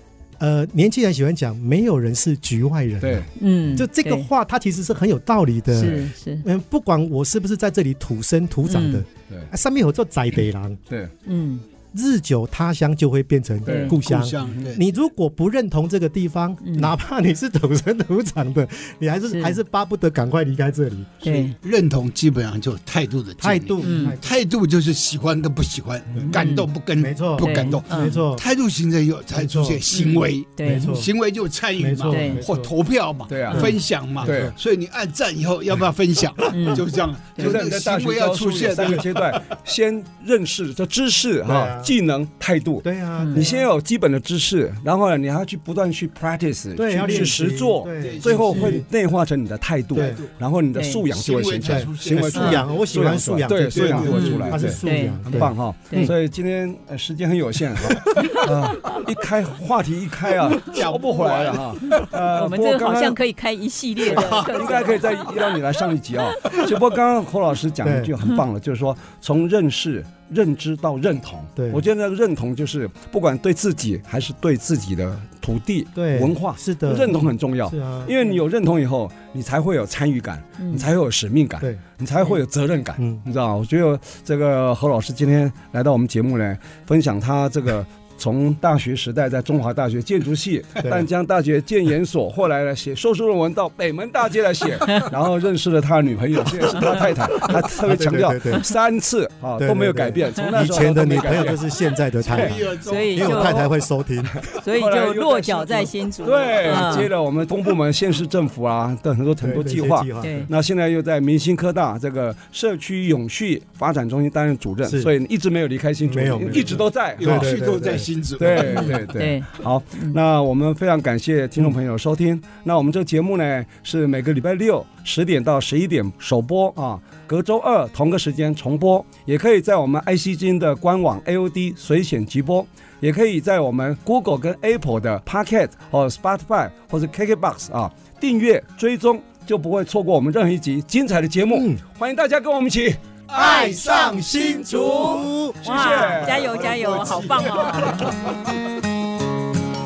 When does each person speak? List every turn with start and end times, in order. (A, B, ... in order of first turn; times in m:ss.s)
0:00.4-0:10.8 A
0:03.0-0:03.3 B
0:03.4-0:04.3 C
0:05.7-0:06.4 C
0:08.6-0:09.0 C
0:11.2-0:11.6 C
0:11.9-0:21.2 A
0:13.6-0:14.0 B
0:13.6-0:13.9 C
0:14.0-0:14.8 D
0:16.6-0:16.9 C
0:19.3-0:19.6 C
0:21.2-0:21.6 C
0:21.2-0:39.4 D
0:23.4-0:24.4 A
0:23.8-0:24.2 C
0:26.3-0:26.7 C
0:27.0-0:28.4 A
0:27.4-0:28.2 C
0:29.3-0:30.1 A
0:29.9-0:30.8 C
0:30.6-0:31.1 A
0:31.8-0:32.7 A
0:32.1-0:32.4 C
0:33.3-0:34.5 B
0:33.5-0:33.8 C
0:34.2-0:34.5 A
0:36.5-0:36.8 C
0:37.4-1:03.2 B
0:41.4-0:41.9 A
0:42.8-0:43.6 A
0:43.2-0:43.4 C
0:46.8-0:48.8 A
0:47.0-0:47.3 C
0:48.0-0:48.8 D
0:49.9-0:50.2 A
0:49.9-0:50.3 D
0:50.7-0:51.0 C
0:51.1-0:54.8 D
0:51.6-0:56.1 A
0:52.4-0:52.6 C
0:54.1-0:55.2 C
0:57.8-0:58.5 A
1:00.6-1:02.1 D
1:02.0-1:05.4 C
1:04.0-1:41.6 B
1:04.1-1:04.9 D
1:07.8-1:08.1 A
1:11.6-1:11.8 A
1:15.9-1:18.1 A
1:20.6-1:20.8 C
1:23.0-1:23.2 A
1:30.8-1:31.1 A
1:37.4-1:38.7 A
1:39.6-1:44.4 A
1:42.2-1:43.6 D
1:42.3-1:42.6 B
1:42.8-1:43.7 C
1:44.3-1:57.7 B
1:44.6-1:47.1 C
1:49.4-1:50.5 A
1:50.2-1:50.5 C
1:54.8-1:55.1 A
1:56.0-1:58.1 A
1:56.5-1:59.0 D
1:58.4-2:28.1 B
1:58.6-2:00.2 C
2:21.5-2:21.8 A
2:23.3-2:25.1 D
2:23.3-2:25.6 A
2:25.6-2:28.2 C
2:26.3-2:28.3 D